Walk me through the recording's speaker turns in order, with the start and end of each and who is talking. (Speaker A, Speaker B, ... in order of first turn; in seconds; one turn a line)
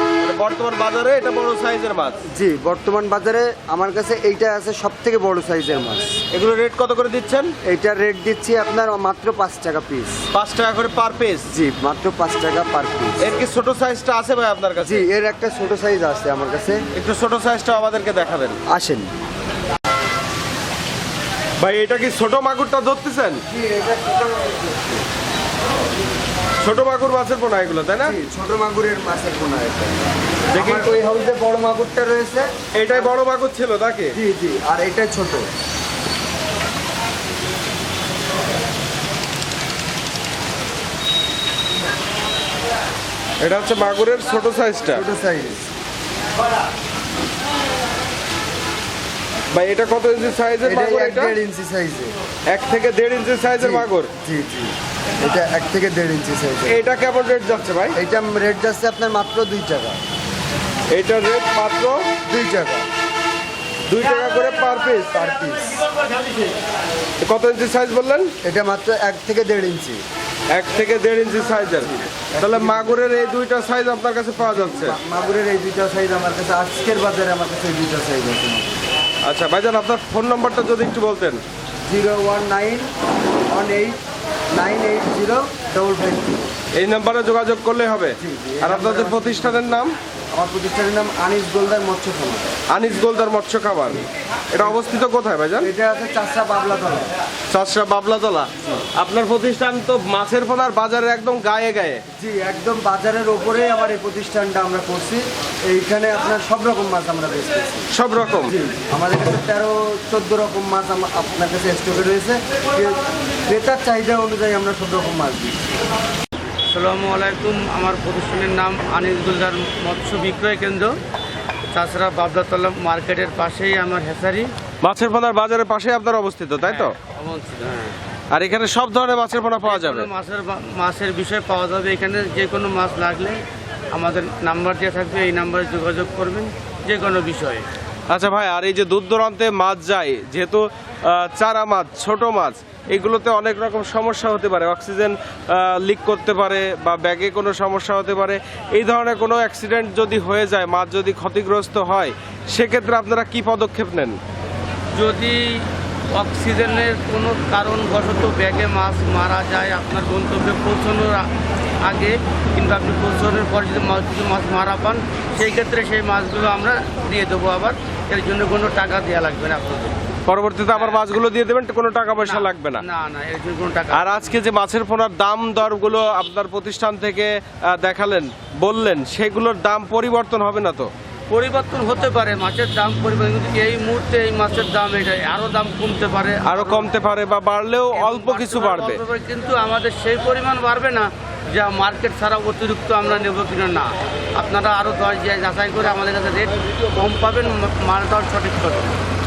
Speaker A: 0.2-2.2
Speaker B: 2.3-6.2
Speaker A: 6.3-7.5
Speaker B: 7.6-10.2
Speaker A: 10.3-11.5
Speaker B: 11.5-13.3
Speaker A: 13.2-15.0
Speaker B: 14.8-16.8
Speaker A: 16.9-18.6
Speaker B: 18.7-19.3
Speaker A: 21.6-23.4
Speaker B: 23.5-25.0
Speaker A: 26.6-28.2
Speaker B: 28.0-33.1
Speaker A: 30.5-30.9
Speaker A: 32.8-34.2
Speaker B: 34.1-35.5
Speaker A: 43.4-45.0
Speaker B: 44.9-45.7
Speaker A: 49.5-51.4
Speaker B: 50.6-52.1
Speaker A: 52.5-54.1
Speaker B: 53.6-56.8
Speaker A: 56.7-58.0
Speaker B: 58.0-60.0
Speaker A: 60.9-62.1
Speaker B: 62.3-62.9
Speaker A: 63.9-65.2
Speaker B: 65.1-65.9
Speaker A: 67.2-68.3
Speaker B: 68.4-70.0
Speaker A: 70.5-75.0
Speaker B: 72.2-73.0
Speaker B: 74.4-78.8
Speaker A: 79.2-81.4
Speaker B: 81.9-82.9
Speaker B: 83.5-84.0
Speaker B: 84.5-86.5
Speaker A: 86.8-89.9
Speaker B: 88.2-92.5
Speaker A: 92.7-95.7
Speaker B: 95.6-97.1
Speaker A: 97.5-102.0
Speaker B: 102.2-107.9
Speaker A: 107.9-108.5
Speaker B: 108.4-115.6
Speaker C: 116.7-120.9
Speaker C: 121.7-124.5
Speaker A: 124.8-127.0
Speaker C: 126.6-128.0
Speaker A: 128.3-130.1
Speaker C: 129.6-133.4
Speaker C: 133.9-137.7
Speaker A: 138.1-154.2
Speaker C: 154.9-161.3
Speaker C: 161.8-170.0
Speaker A: 170.3-172.8
Speaker C: 170.7-171.0
Speaker C: 172.2-174.3
Speaker A: 173.9-180.9
Speaker C: 181.3-186.9
Speaker A: 186.4-189.0
Speaker C: 187.9-199.0